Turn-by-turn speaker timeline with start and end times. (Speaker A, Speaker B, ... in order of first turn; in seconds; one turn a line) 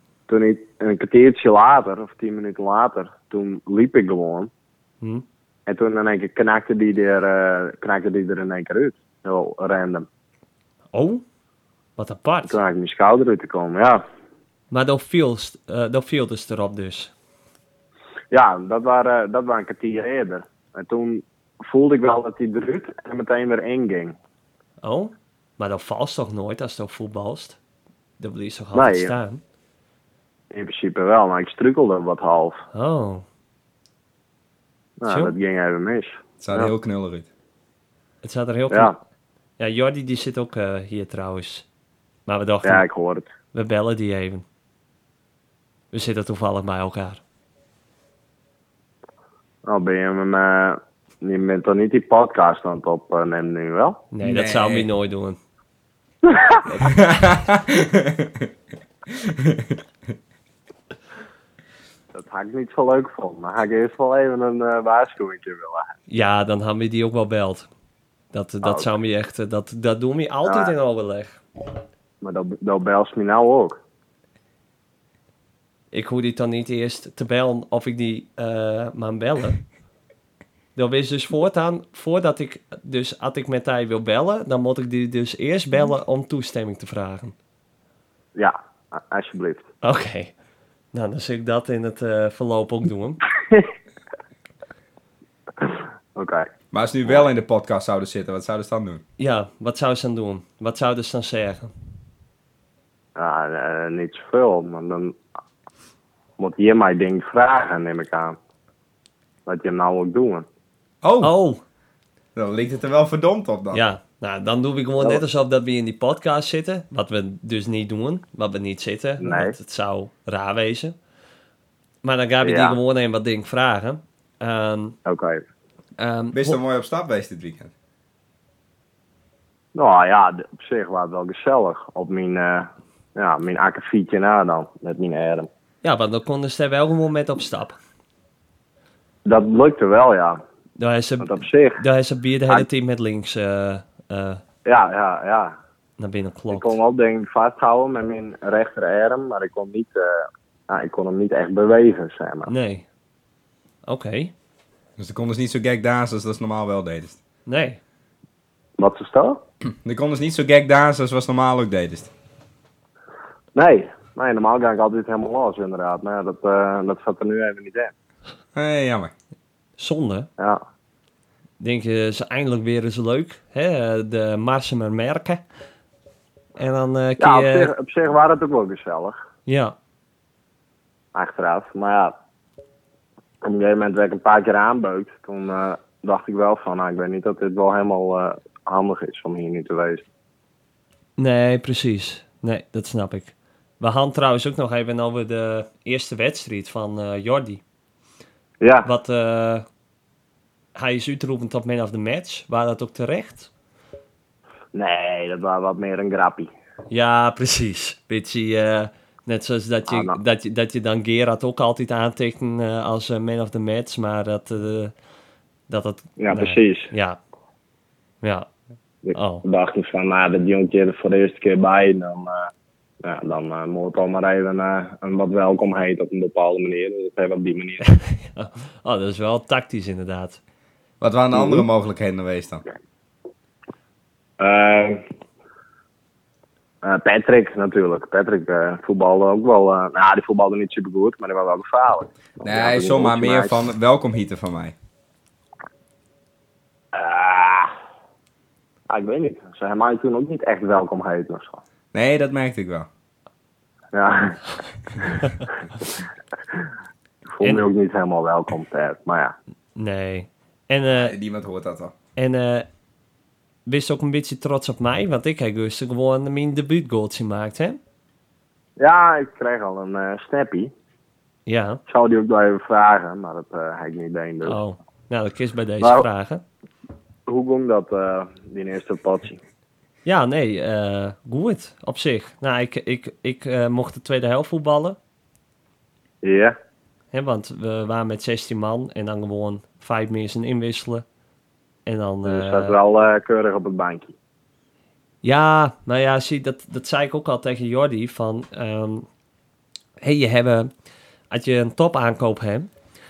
Speaker A: 0.3-4.5
Speaker A: 5.7-10.1
Speaker B: 10.9-11.2
Speaker B: 12.0-12.6
Speaker A: 12.5-14.0
Speaker B: 14.7-17.1
Speaker A: 18.3-24.1
Speaker B: 24.8-27.6
Speaker B: 28.2-29.4
Speaker A: 28.7-29.1
Speaker A: 30.5-32.6
Speaker B: 32.7-33.2
Speaker A: 35.0-36.7
Speaker B: 35.1-35.3
Speaker C: 36.4-37.3
Speaker B: 38.2-38.9
Speaker B: 39.6-41.6
Speaker B: 42.3-42.8
Speaker A: 42.6-43.3
Speaker B: 43.5-44.4
Speaker B: 45.9-47.2
Speaker A: 49.6-54.0
Speaker B: 54.1-55.4
Speaker C: 54.2-54.9
Speaker A: 56.2-56.6
Speaker C: 56.7-58.5
Speaker C: 59.1-59.8
Speaker A: 62.1-65.9
Speaker B: 66.1-67.7
Speaker B: 68.3-71.4
Speaker A: 68.6-68.9
Speaker A: 70.4-70.7
Speaker A: 72.2-73.8
Speaker B: 75.9-79.6
Speaker B: 80.8-87.3
Speaker A: 88.3-89.6
Speaker B: 89.8-90.3
Speaker B: 90.9-93.2
Speaker A: 95.6-96.5
Speaker C: 96.7-99.0
Speaker B: 99.2-101.7
Speaker A: 103.2-105.2
Speaker A: 106.4-108.3
Speaker A: 109.5-110.5
Speaker C: 111.0-111.3
Speaker B: 111.2-111.6
Speaker C: 112.3-113.8
Speaker B: 113.7-120.9
Speaker A: 119.2-119.5
Speaker B: 122.0-125.0
Speaker A: 122.4-122.8
Speaker A: 125.0-125.4
Speaker B: 126.0-126.6
Speaker C: 126.3-127.7
Speaker A: 129.7-135.5
Speaker B: 135.8-137.8
Speaker A: 139.2-140.4
Speaker B: 140.8-144.4
Speaker A: 141.2-141.8
Speaker A: 144.6-145.5
Speaker B: 146.0-146.8
Speaker A: 146.5-152.5
Speaker B: 152.5-152.8
Speaker B: 153.9-154.3
Speaker C: 155.0-157.2
Speaker B: 157.4-157.8
Speaker A: 158.8-159.4
Speaker C: 159.6-162.1
Speaker A: 163.5-167.9
Speaker C: 168.5-169.1
Speaker B: 169.8-170.3
Speaker B: 171.6-175.4
Speaker B: 176.6-177.7
Speaker A: 177.2-179.2
Speaker B: 179.4-179.7
Speaker A: 181.1-182.2
Speaker A: 183.4-190.0
Speaker B: 191.2-197.6
Speaker A: 198.6-198.9
Speaker B: 198.8-199.7
Speaker B: 200.7-203.5
Speaker A: 204.7-206.5
Speaker B: 206.9-214.9
Speaker A: 209.9-210.2
Speaker B: 215.7-217.2
Speaker A: 216.2-216.9
Speaker B: 218.2-218.5
Speaker A: 219.0-222.5
Speaker B: 219.1-219.4
Speaker A: 223.0-227.8
Speaker B: 227.9-230.4
Speaker C: 231.0-232.6
Speaker A: 231.3-231.6
Speaker A: 234.4-235.0
Speaker A: 236.8-243.6
Speaker C: 242.4-244.7
Speaker A: 246.9-247.7
Speaker A: 248.9-251.6
Speaker C: 251.9-252.9
Speaker A: 253.9-254.4
Speaker A: 257.3-259.3
Speaker B: 259.8-261.1
Speaker C: 261.0-261.9
Speaker B: 262.1-262.7
Speaker B: 263.6-267.8
Speaker A: 268.8-270.7
Speaker B: 271.4-271.8
Speaker A: 271.9-274.6
Speaker B: 274.4-276.4
Speaker A: 275.8-276.1
Speaker A: 277.3-279.4
Speaker B: 280.1-285.0
Speaker A: 286.2-286.5
Speaker B: 287.1-291.0
Speaker B: 291.9-292.8
Speaker A: 292.2-294.1
Speaker B: 295.2-299.1
Speaker B: 300.0-300.7
Speaker B: 301.3-302.7